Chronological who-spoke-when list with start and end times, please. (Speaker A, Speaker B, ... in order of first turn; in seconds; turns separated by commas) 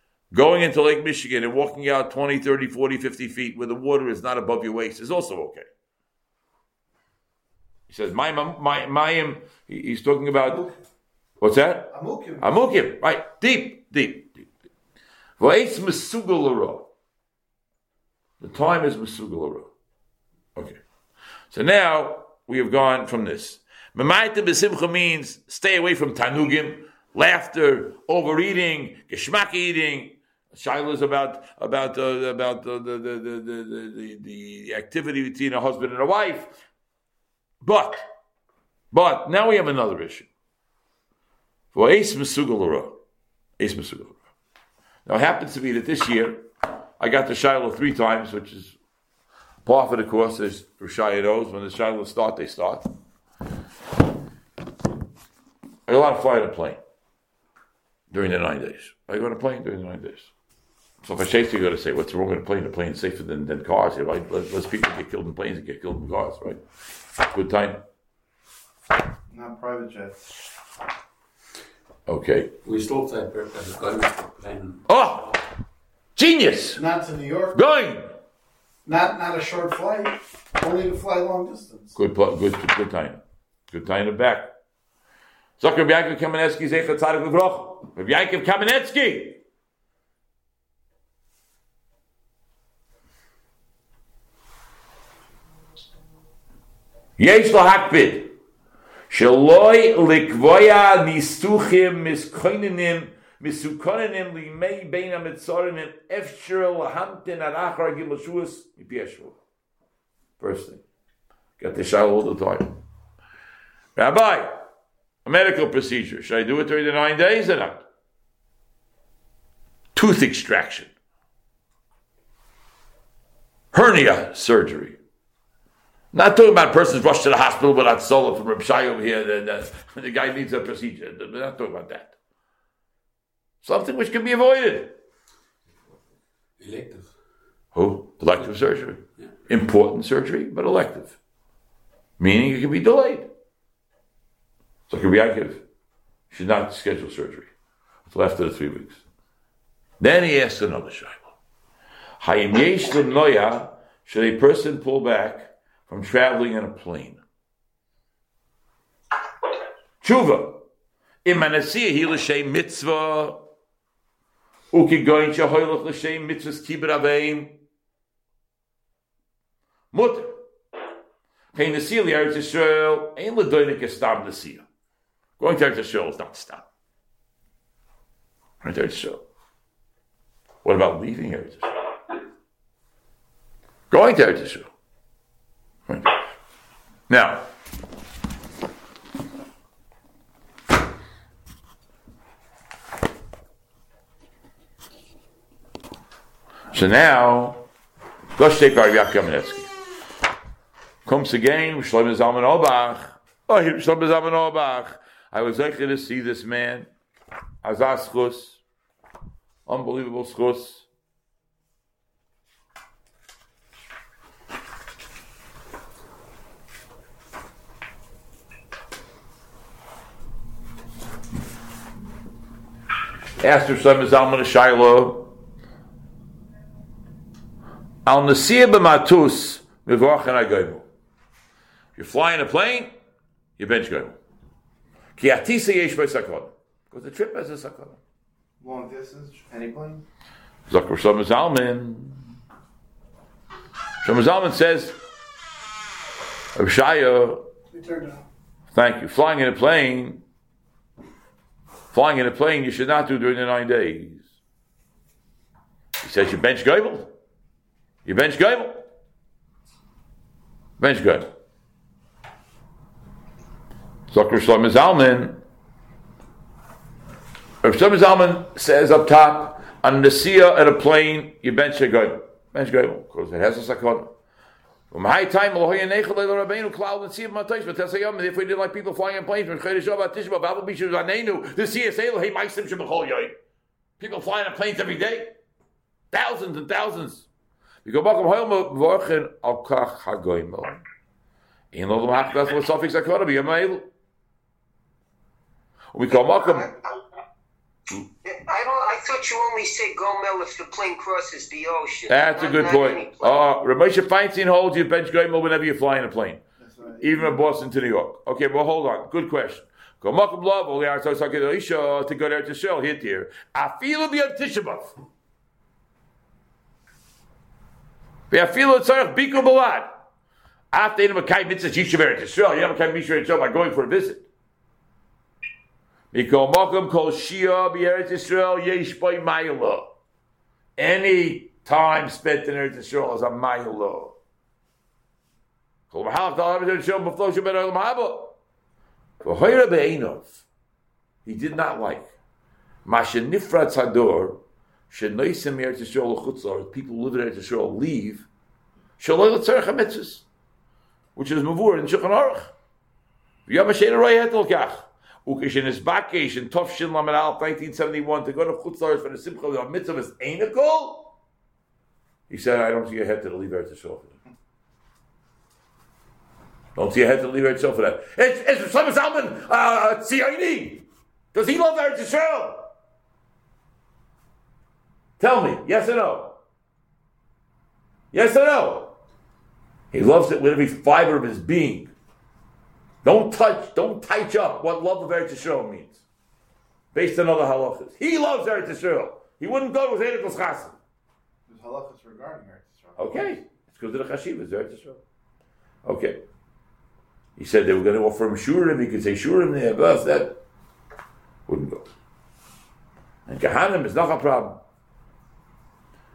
Speaker A: 0.3-5.7, Speaker A: 7.9-10.7, Speaker B: 10.4-10.8, Speaker A: 11.4-14.5, Speaker B: 11.9-12.5, Speaker A: 15.4-16.9, Speaker A: 18.4-19.7, Speaker A: 21.5-36.5, Speaker A: 37.6-38.0, Speaker A: 38.9-40.3, Speaker A: 41.7-43.0, Speaker A: 43.6-44.2, Speaker A: 45.0-46.5, Speaker A: 47.0-48.8, Speaker A: 49.6-52.9, Speaker A: 55.9-56.8, Speaker A: 58.1-60.3, Speaker A: 61.0-66.6, Speaker A: 67.3-67.8, Speaker C: 69.3-70.3, Speaker A: 72.1-72.5, Speaker D: 72.6-74.8, Speaker A: 74.8-75.4, Speaker A: 76.2-76.8, Speaker B: 76.7-77.6, Speaker A: 77.5-78.1, Speaker B: 78.8-81.9, Speaker A: 81.9-84.5, Speaker A: 85.6-89.4, Speaker A: 97.2-98.3, Speaker A: 99.1-109.4, Speaker A: 110.4-110.8, Speaker A: 111.6-112.8, Speaker A: 114.0-114.7, Speaker A: 115.2-117.8, Speaker A: 119.9-120.9, Speaker A: 123.7-125.0, Speaker A: 126.1-132.2, Speaker A: 133.6-135.0, Speaker D: 136.6-137.1, Speaker A: 137.7-141.2, Speaker A: 142.2-143.3, Speaker A: 144.9-145.6, Speaker A: 146.3-147.5, Speaker A: 148.1-149.0, Speaker A: 150.0-151.3, Speaker A: 152.2-157.2, Speaker A: 160.0-160.6, Speaker A: 161.2-163.4, Speaker A: 164.7-167.6, Speaker A: 169.9-170.4, Speaker A: 171.5-174.6, Speaker A: 175.4-176.6, Speaker A: 178.6-179.2, Speaker A: 180.6-181.8, Speaker A: 183.9-184.7, Speaker A: 185.9-186.2, Speaker A: 187.1-187.4, Speaker A: 196.7-197.6, Speaker A: 198.3-199.7, Speaker A: 201.1-206.9, Speaker A: 207.6-208.6, Speaker A: 209.7-210.9, Speaker A: 223.4-225.3, Speaker A: 228.0-230.8, Speaker A: 231.9-232.9, Speaker A: 233.6-234.2, Speaker A: 235.2-238.0, Speaker C: 238.6-240.0, Speaker A: 240.7-242.3, Speaker A: 244.0-245.0, Speaker A: 246.5-247.4, Speaker B: 247.7-248.2, Speaker A: 248.7-250.2, Speaker A: 251.9-254.3, Speaker A: 256.0-257.1, Speaker A: 258.0-258.8, Speaker A: 260.8-261.3, Speaker A: 264.1-265.4, Speaker A: 267.6-274.1, Speaker A: 274.9-283.3, Speaker A: 284.0-285.3, Speaker A: 286.1-287.3, Speaker A: 287.8-290.8, Speaker A: 291.7-293.9, Speaker A: 295.9-296.7, Speaker E: 296.3-296.8, Speaker E: 298.2-303.4, Speaker A: 302.1-306.4, Speaker C: 306.6-307.3, Speaker A: 307.0-314.9, Speaker A: 318.3-319.9, Speaker A: 320.7-324.3, Speaker A: 326.1-329.9, Speaker A: 330.8-334.1, Speaker A: 335.9-338.4, Speaker A: 339.2-340.4, Speaker A: 341.2-342.1, Speaker A: 342.8-348.3, Speaker A: 349.0-350.2, Speaker A: 351.1-352.5, Speaker A: 353.5-361.1, Speaker A: 362.3-364.2, Speaker A: 366.7-372.7, Speaker A: 375.2-376.4, Speaker A: 378.1-378.9, Speaker A: 379.9-381.9, Speaker A: 383.0-386.0, Speaker A: 386.9-390.8, Speaker C: 391.5-393.4, Speaker A: 393.0-395.0, Speaker A: 395.8-396.2, Speaker A: 397.4-400.4, Speaker A: 401.5-401.9, Speaker A: 403.3-404.6